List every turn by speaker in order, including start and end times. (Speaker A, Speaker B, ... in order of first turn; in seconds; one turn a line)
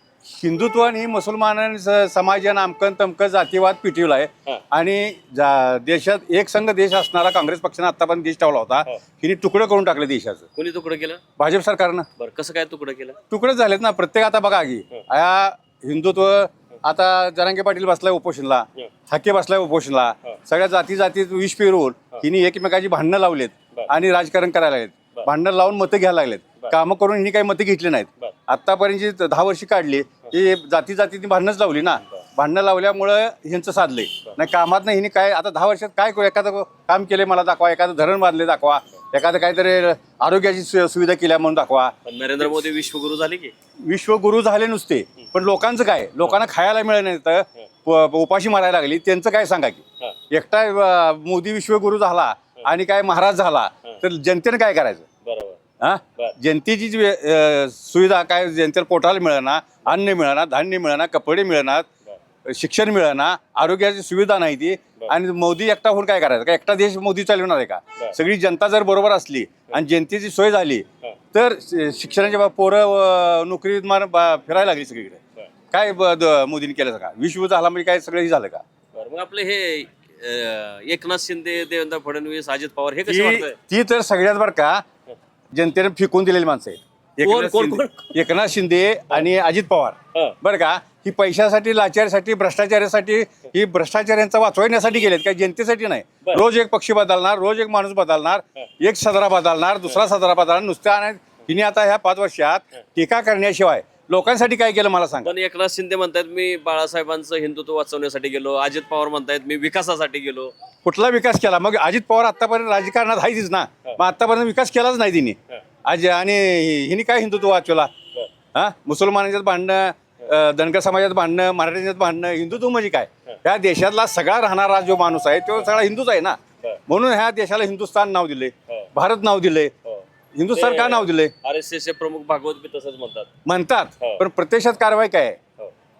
Speaker A: 0.2-10.4
Speaker B: 10.6-11.2
Speaker A: 11.4-12.1
Speaker B: 12.2-13.2
Speaker A: 13.3-41.9
Speaker B: 42.1-43.5
Speaker A: 43.8-55.0
Speaker B: 55.2-55.6
Speaker A: 55.8-61.9
Speaker A: 62.5-75.2
Speaker A: 75.7-78.6
Speaker B: 78.9-83.6
Speaker A: 83.1-84.8
Speaker A: 85.5-105.3
Speaker B: 87.2-88.2
Speaker B: 105.2-110.5
Speaker A: 110.8-117.9
Speaker A: 118.5-129.7
Speaker B: 129.8-133.3
Speaker A: 130.3-131.3
Speaker A: 133.4-135.4